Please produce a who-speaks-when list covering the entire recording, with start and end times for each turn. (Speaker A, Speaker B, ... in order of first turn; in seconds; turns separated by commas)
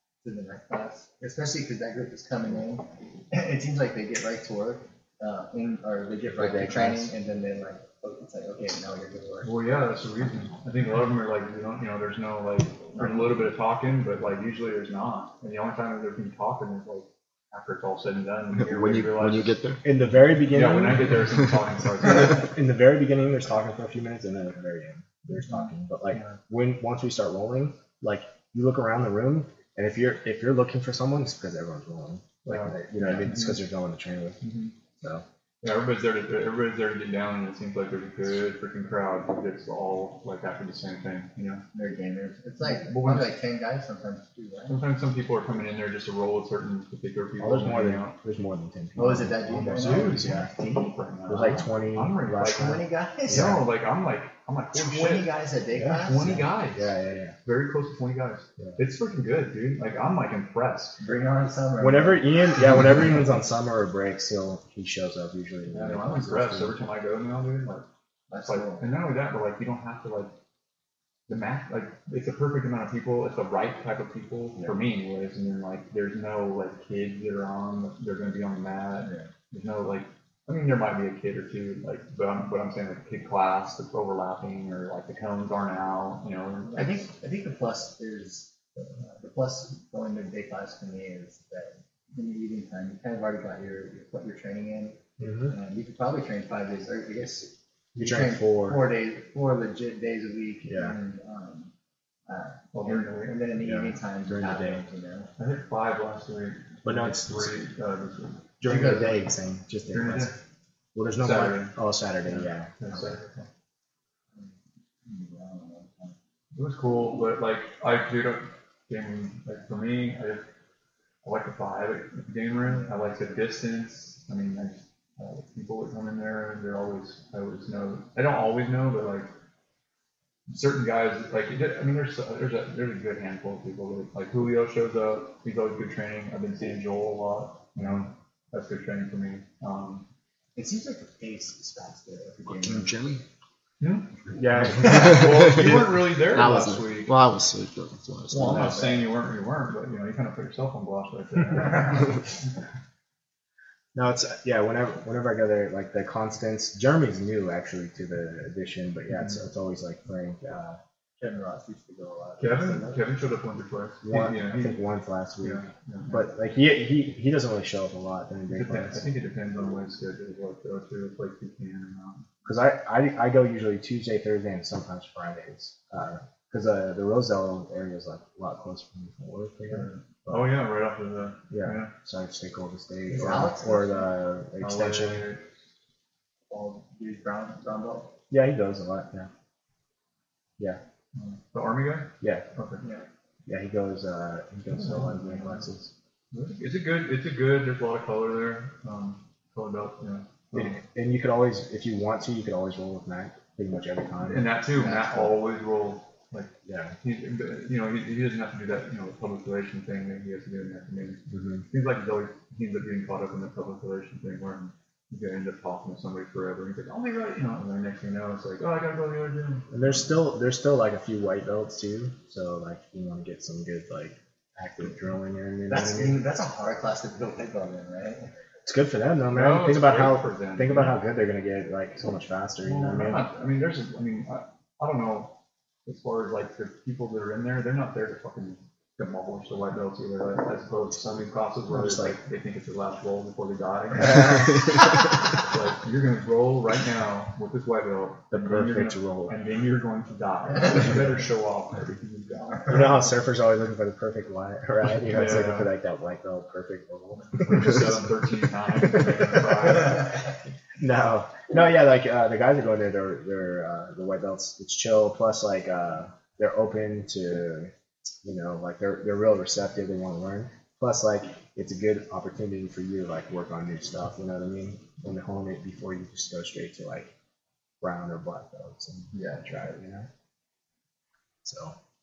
Speaker A: 0.2-9.5, Speaker B: 6.3-7.1, Speaker C: 9.4-19.6, Speaker D: 18.5-19.9, Speaker B: 19.8-21.3, Speaker C: 20.1-22.5, Speaker B: 22.0-34.4, Speaker C: 25.3-26.4, Speaker C: 32.4-33.6, Speaker C: 34.4-34.7, Speaker B: 35.0-35.2, Speaker C: 35.6-41.6, Speaker A: 41.7-44.8, Speaker C: 42.6-43.4, Speaker C: 44.7-48.1, Speaker B: 47.4-53.6, Speaker A: 49.0-50.3, Speaker C: 49.7-55.3, Speaker A: 52.5-53.7, Speaker A: 54.7-56.5, Speaker B: 55.7-57.4, Speaker C: 55.9-61.0, Speaker A: 61.0-62.2, Speaker B: 61.8-66.8, Speaker C: 65.7-67.9, Speaker A: 68.3-68.9, Speaker C: 68.4-70.3, Speaker C: 71.3-87.1, Speaker A: 79.0-79.3, Speaker A: 86.7-101.7, Speaker B: 95.2-95.5, Speaker B: 98.0-98.9, Speaker B: 100.6-101.0, Speaker A: 102.3-105.3, Speaker C: 102.7-103.4, Speaker B: 103.6-104.8, Speaker C: 105.4-109.2, Speaker B: 106.8-107.6, Speaker B: 108.6-110.3, Speaker C: 109.9-110.3, Speaker B: 110.9-112.8, Speaker C: 111.2-113.5, Speaker A: 114.3-116.2, Speaker C: 116.5-120.5, Speaker C: 121.2-129.3, Speaker A: 122.6-123.0, Speaker C: 130.5-140.1, Speaker B: 137.8-138.1, Speaker A: 140.6-143.0, Speaker D: 142.7-143.1, Speaker B: 142.7-143.1, Speaker C: 143.8-147.2, Speaker B: 144.3-145.7, Speaker D: 145.4-148.8, Speaker C: 148.3-152.2, Speaker B: 153.9-160.8, Speaker C: 159.1-159.4, Speaker A: 161.2-163.0, Speaker C: 162.4-164.8, Speaker B: 164.0-169.1, Speaker C: 165.4-166.2, Speaker C: 168.5-172.3, Speaker B: 172.4-180.5, Speaker C: 179.7-181.9, Speaker B: 181.5-185.3, Speaker A: 183.1-184.1, Speaker C: 184.6-185.4, Speaker A: 186.5-188.1, Speaker B: 188.3-189.3, Speaker C: 191.1-192.8, Speaker B: 192.2-192.4, Speaker A: 192.8-193.1, Speaker B: 193.5-195.9, Speaker C: 194.7-195.7, Speaker C: 196.3-200.8, Speaker B: 200.5-204.6, Speaker C: 204.2-220.1, Speaker A: 204.7-205.4, Speaker B: 206.6-206.9, Speaker B: 211.3-211.7, Speaker B: 219.7-226.2, Speaker A: 225.7-228.3, Speaker B: 228.7-233.2, Speaker C: 229.3-231.0, Speaker C: 232.6-253.1, Speaker B: 241.7-242.2, Speaker B: 248.3-249.4, Speaker B: 252.7-258.1, Speaker C: 255.1-255.7, Speaker C: 257.4-260.2, Speaker B: 258.9-259.2, Speaker B: 260.8-267.7, Speaker B: 268.2-277.1, Speaker B: 277.8-280.1, Speaker A: 279.1-279.6, Speaker B: 281.4-281.8